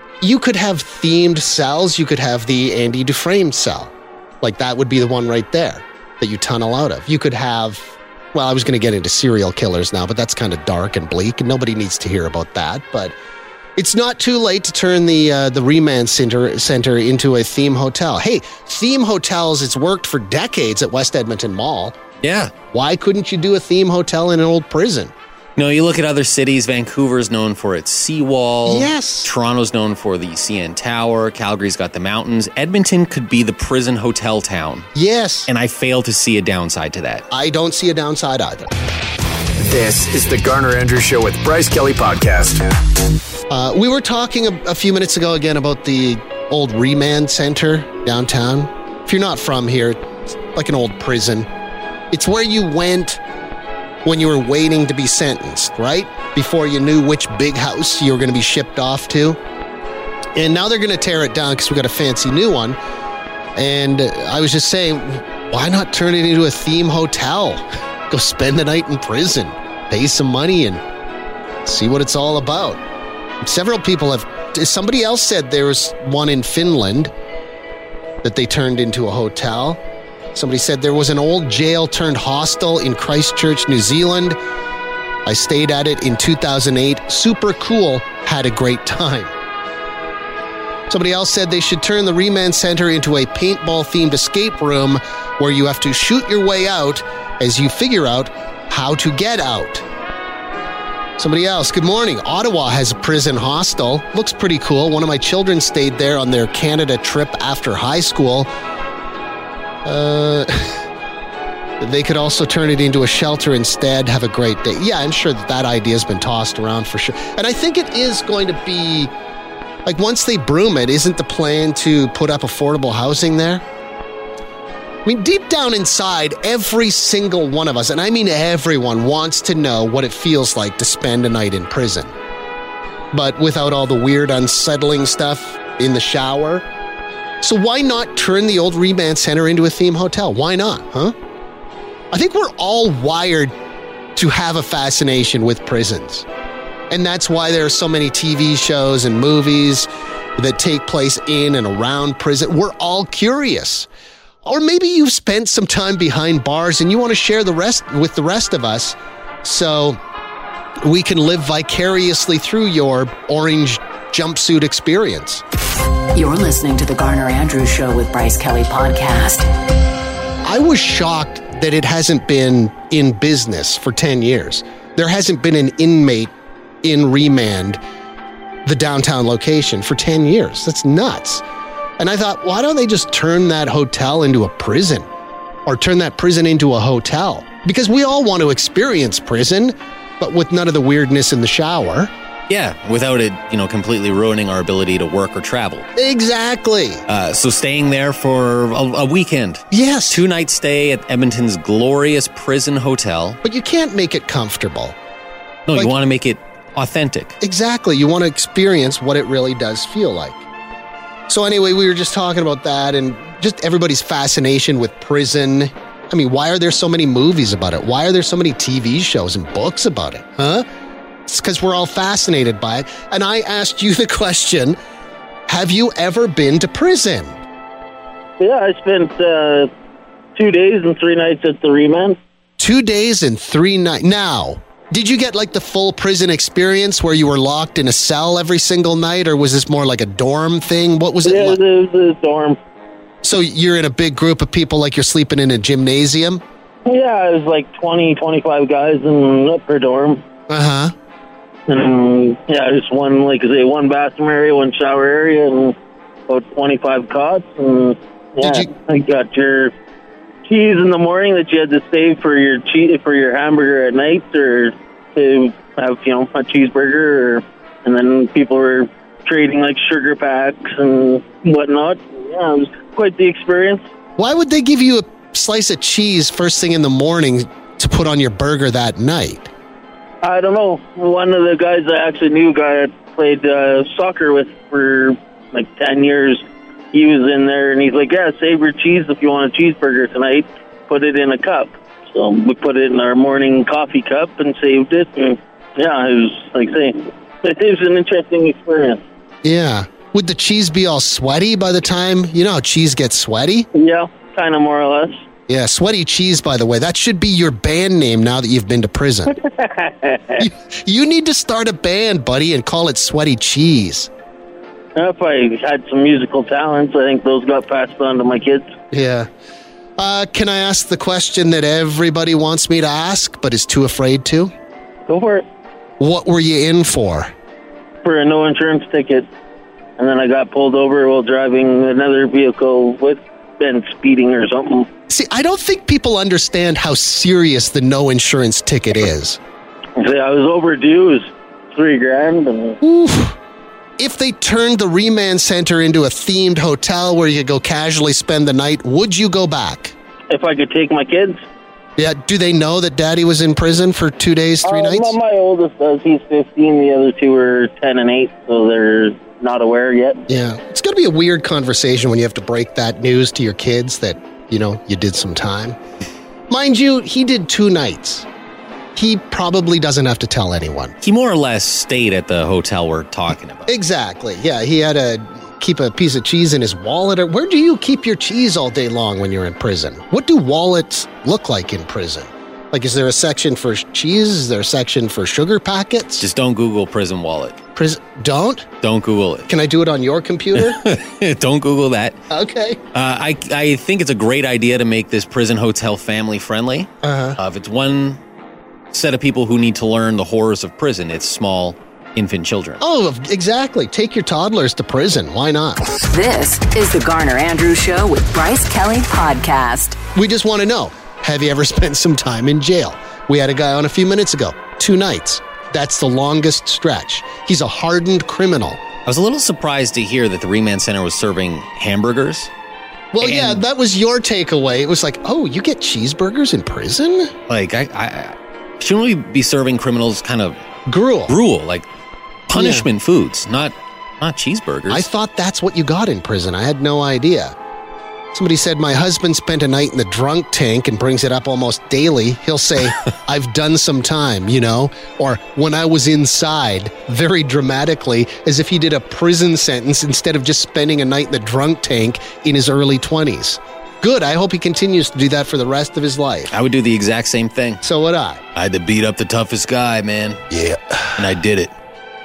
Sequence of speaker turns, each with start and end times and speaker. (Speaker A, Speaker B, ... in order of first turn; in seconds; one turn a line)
Speaker A: 0.2-13.1
Speaker A: 13.8-22.0
Speaker B: 22.2-22.5
Speaker A: 22.7-25.1
Speaker B: 25.6-34.9
Speaker A: 28.6-29.3
Speaker A: 34.9-35.5
Speaker B: 35.5-37.2
Speaker A: 37.3-38.7
Speaker C: 39.6-42.7
Speaker A: 43.5-51.5
Speaker A: 52.1-53.2
Speaker A: 54.0-59.4
Speaker A: 60.4-62.8
Speaker A: 63.6-70.8
Speaker A: 71.6-72.8
Speaker A: 73.4-77.1
Speaker A: 78.2-79.8
Speaker A: 80.3-84.4
Speaker A: 85.2-89.3
Speaker A: 90.9-99.8
Speaker A: 101.2-108.5
Speaker A: 109.8-110.8
Speaker A: 111.8-119.1
Speaker A: 119.8-123.6
Speaker A: 125.0-132.1
Speaker A: 133.1-136.7
Speaker A: 137.4-141.1
Speaker A: 142.1-143.5
Speaker A: 144.1-146.2
Speaker A: 146.9-153.9
Speaker A: 154.4-160.0
Speaker A: 160.8-165.4
Speaker D: 166.1-169.5
Speaker A: 170.4-176.3
Speaker A: 176.8-177.8
Speaker A: 178.6-181.4
Speaker A: 182.0-185.1
Speaker A: 185.7-192.1
Speaker B: 192.5-195.9
Speaker A: 196.0-197.0
Speaker B: 197.1-203.4
Speaker A: 199.7-200.2
Speaker A: 203.4-205.0
Speaker B: 205.7-207.4
Speaker A: 207.4-210.4
Speaker A: 211.3-220.7
Speaker A: 221.3-224.8
Speaker A: 225.5-227.4
Speaker E: 228.4-229.7
Speaker E: 230.4-232.2
Speaker A: 232.6-241.6
Speaker E: 241.2-242.6
Speaker A: 243.2-246.4
Speaker E: 246.9-250.2
Speaker A: 250.5-250.9
Speaker E: 251.7-255.8
Speaker E: 256.3-259.7
Speaker A: 258.4-258.7
Speaker E: 260.5-273.8
Speaker A: 274.2-279.5
Speaker E: 280.2-299.0
Speaker A: 299.4-303.7
Speaker E: 303.8-305.2
Speaker A: 305.5-309.4
Speaker E: 309.3-310.4
Speaker A: 310.4-314.1
Speaker E: 314.9-318.7
Speaker A: 318.9-319.3
Speaker A: 320.0-324.5
Speaker E: 325.1-325.4
Speaker A: 326.0-327.3
Speaker E: 328.0-329.3
Speaker E: 330.0-334.9
Speaker A: 335.1-339.4
Speaker E: 340.0-342.8
Speaker A: 342.8-343.4
Speaker A: 344.0-349.9
Speaker E: 350.3-351.4
Speaker A: 352.0-355.2
Speaker E: 354.6-360.2
Speaker A: 360.3-365.8
Speaker A: 366.5-368.3
Speaker A: 368.9-370.9
Speaker B: 371.0-373.7
Speaker A: 373.7-386.3
Speaker B: 386.2-387.6
Speaker A: 387.8-388.7
Speaker B: 388.8-389.5
Speaker A: 389.5-390.9
Speaker B: 390.6-392.2
Speaker A: 392.3-392.8
Speaker B: 392.9-398.2
Speaker A: 397.0-397.4
Speaker B: 398.9-402.8
Speaker A: 402.8-406.0
Speaker D: 406.1-410.0
Speaker A: 410.1-418.8
Speaker B: 419.1-422.5
Speaker A: 423.1-427.3
Speaker B: 423.2-423.6
Speaker B: 427.5-430.6
Speaker A: 430.9-431.4
Speaker B: 431.3-431.9
Speaker B: 432.5-435.1
Speaker A: 432.5-432.9
Speaker A: 434.9-437.6
Speaker A: 438.3-456.5
Speaker B: 456.5-457.8
Speaker A: 457.8-458.4
Speaker B: 458.6-460.4
Speaker A: 460.5-461.2
Speaker B: 461.1-461.7